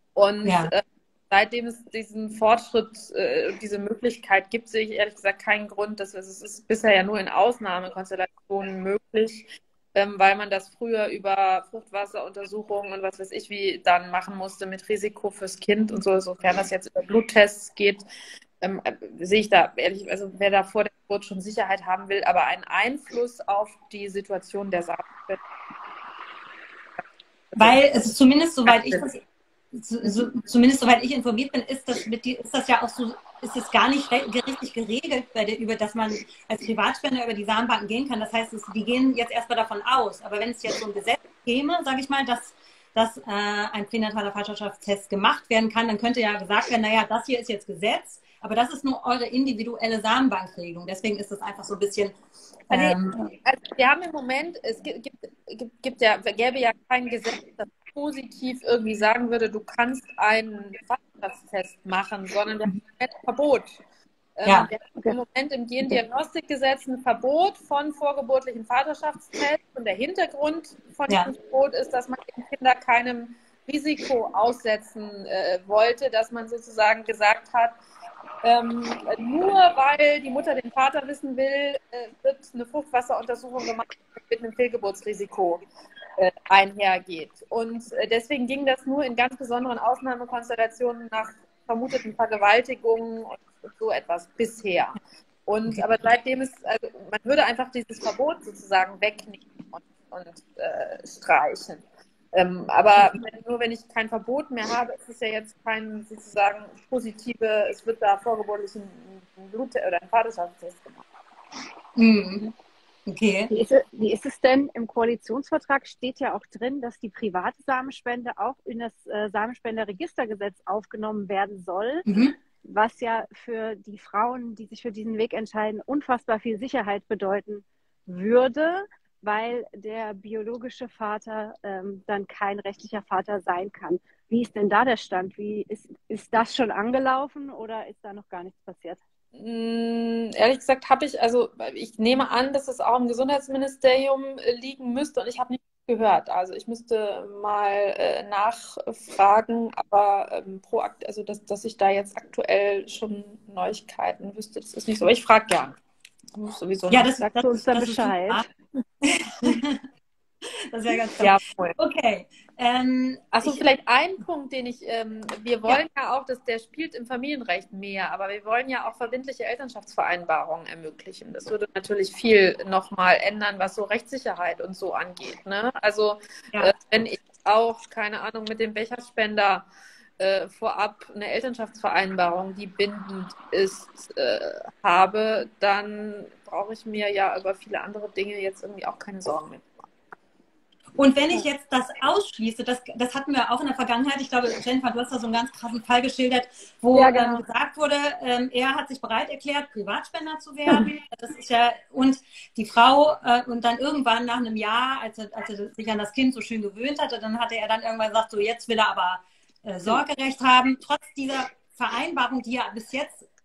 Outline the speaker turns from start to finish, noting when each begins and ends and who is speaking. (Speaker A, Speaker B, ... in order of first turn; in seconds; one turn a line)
Speaker A: 0.1-18.1
Speaker B: 0.4-0.7
Speaker A: 18.6-25.4
Speaker B: 27.6-52.1
Speaker A: 28.6-29.0
Speaker B: 52.7-53.2
Speaker A: 52.7-63.8
Speaker A: 64.3-77.8
Speaker B: 64.4-64.7
Speaker A: 78.4-85.6
Speaker A: 86.2-111.0
Speaker B: 112.0-112.5
Speaker B: 113.1-113.5
Speaker C: 113.5-139.0
Speaker B: 122.1-122.3
Speaker A: 139.3-155.8
Speaker A: 156.3-157.1
Speaker B: 156.9-158.5
Speaker C: 157.2-158.4
Speaker B: 159.0-159.8
Speaker B: 160.7-163.6
Speaker A: 161.2-161.8
Speaker A: 163.3-179.7
Speaker A: 180.2-189.8
Speaker B: 191.0-213.3
Speaker C: 196.9-197.4